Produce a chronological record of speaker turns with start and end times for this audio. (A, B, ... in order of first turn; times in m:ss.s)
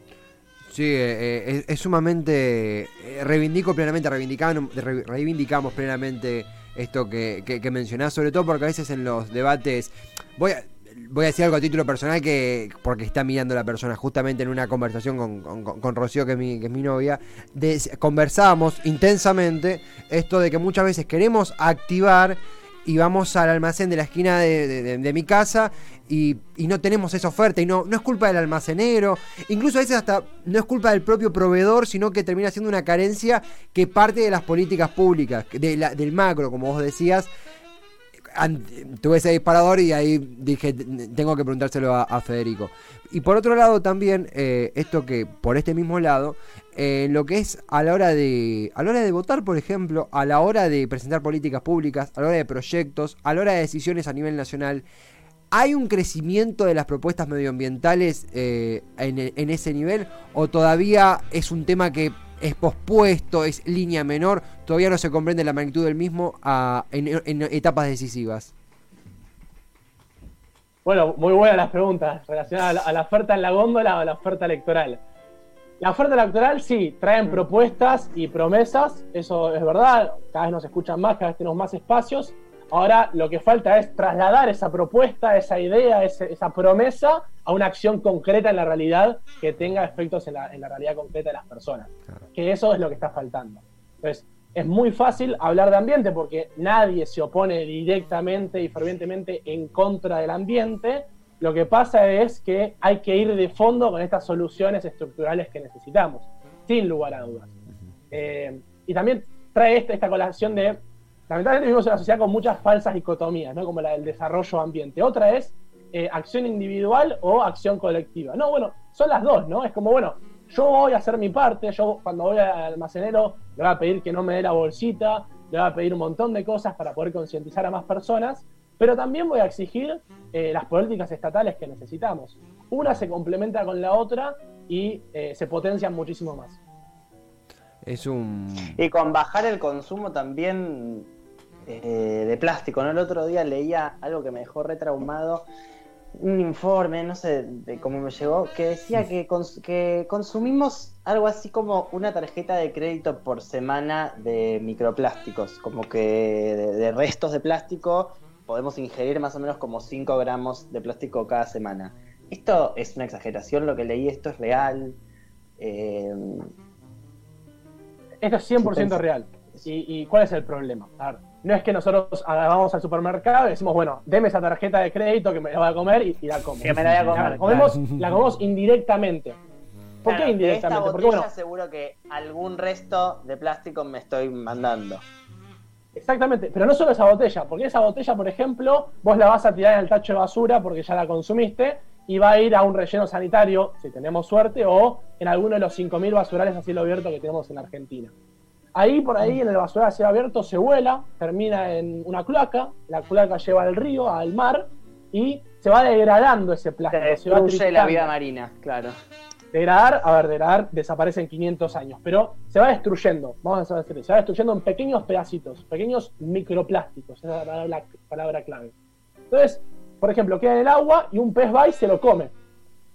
0:00.7-0:37.3 A
0:38.3-0:54.8 A
0:55.5-1:08.5 A
1:10.8-1:15.0 B
1:15.8-1:47.5 B
1:48.1-2:16.6 B
2:17.8-2:18.8 A
2:18.8-2:21.1 C
2:21.7-2:25.5 C
2:26.2-2:45.0 C
2:45.6-2:46.5 C
2:48.2-2:59.4 B
2:48.6-2:49.0 C
2:56.6-2:57.7 C
3:00.0-3:05.0 C
3:00.0-3:01.3 B
3:06.0-3:18.1 B
3:18.8-3:28.1 B
3:26.9-3:28.9 C
3:29.5-3:38.7 B
3:39.3-3:42.3 B